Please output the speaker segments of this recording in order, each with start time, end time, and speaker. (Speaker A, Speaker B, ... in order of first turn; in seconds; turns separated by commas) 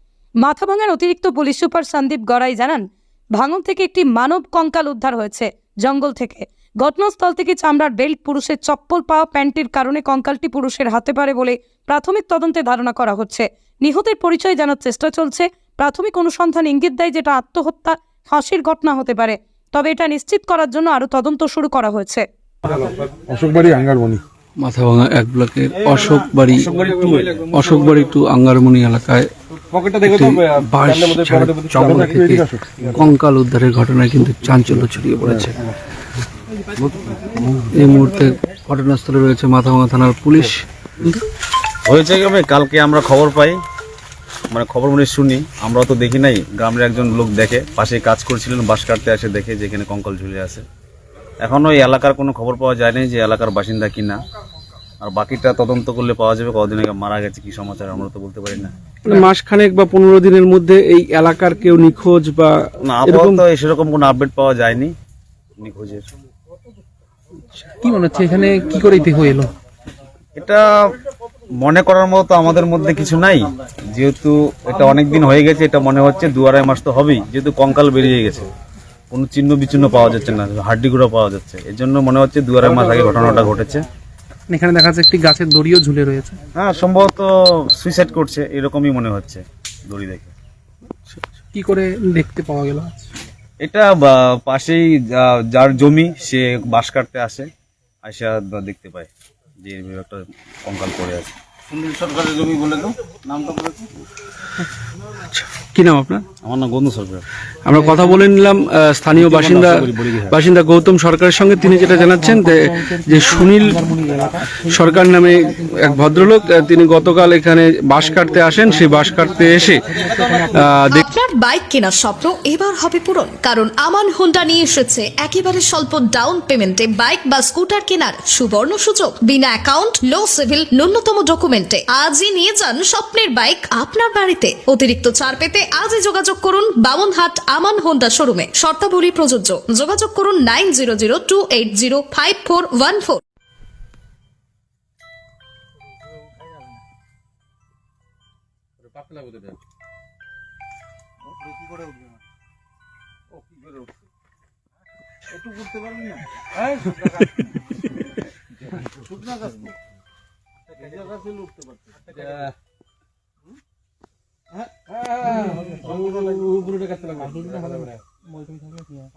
Speaker A: 0.4-22.3, Speaker B: 23.2-24.2, Speaker C: 24.6-29.3, Speaker C: 29.9-35.6, Speaker B: 31.8-32.5, Speaker C: 37.7-41.2, Speaker D: 41.9-43.6, Speaker D: 44.5-50.6, Speaker D: 51.4-54.2, Speaker D: 55.0-58.7, Speaker C: 59.0-63.4, Speaker D: 62.8-64.9, Speaker D: 65.6-66.0, Speaker E: 67.6-69.5, Speaker D: 70.3-70.7, Speaker D: 71.6-78.5, Speaker D: 79.1-83.8, Speaker E: 84.5-86.4, Speaker D: 86.5-90.3, Speaker E: 91.5-93.1, Speaker D: 93.6-97.5, Speaker D: 98.0-99.1, Speaker D: 99.6-103.8, Speaker C: 105.3-106.2, Speaker D: 106.4-107.2, Speaker C: 107.6-113.9, Speaker D: 109.2-110.3, Speaker E: 113.8-114.6, Speaker C: 114.5-119.8, Speaker E: 120.0-120.5, Speaker C: 120.5-121.0, Speaker F: 120.9-143.2, Speaker B: 165.8-167.5